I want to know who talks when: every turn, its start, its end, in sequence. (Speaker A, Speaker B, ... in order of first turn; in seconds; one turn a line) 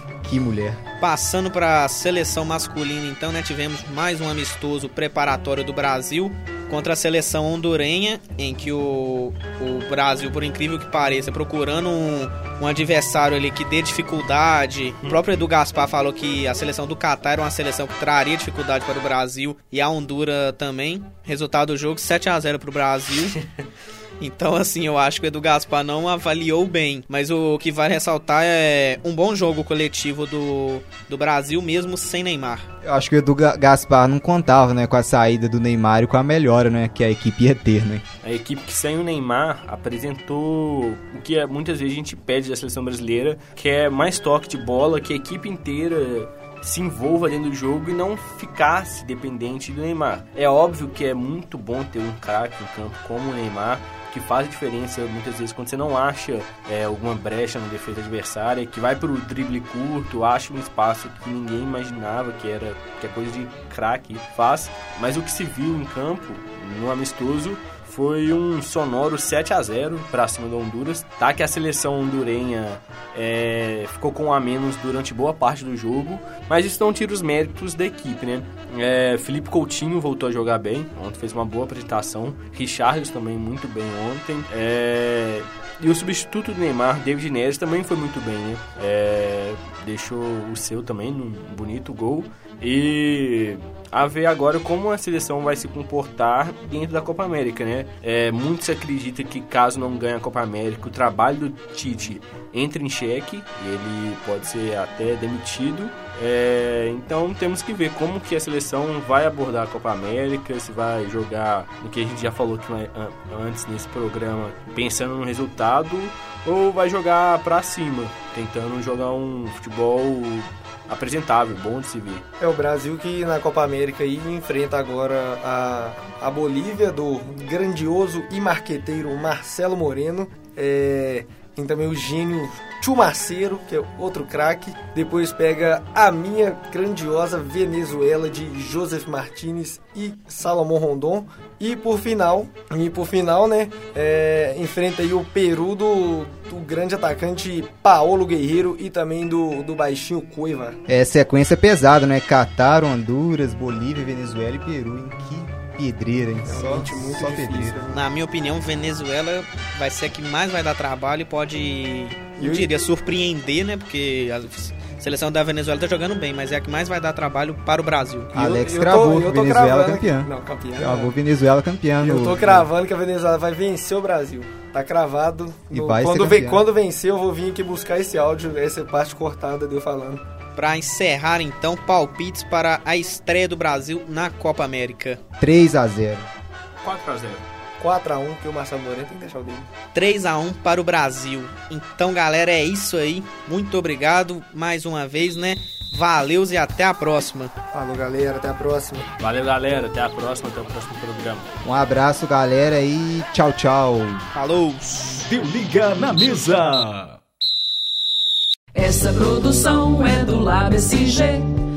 Speaker A: 0.2-0.8
Speaker B: 1.0-23.4
Speaker B: 24.2-32.7
Speaker A: 32.8-38.0
Speaker C: 38.2-122.2
Speaker D: 122.4-150.8
Speaker A: 150.9-157.8
Speaker D: 156.5-158.0
Speaker B: 157.9-168.3
Speaker D: 162.4-162.7
Speaker D: 168.3-171.1
Speaker A: 168.3-172.7
Speaker D: 172.0-180.2
Speaker A: 175.7-176.6
Speaker B: 180.6-185.2
Speaker A: 185.4-186.3
Speaker C: 186.8-187.5
Speaker D: 187.8-189.7
Speaker B: 189.9-197.5
Speaker D: 197.7-199.1
Speaker C: 199.2-201.5
Speaker A: 201.6-204.3
Speaker B: 204.3-205.3
Speaker E: 205.3-207.2
Speaker F: 208.8-211.5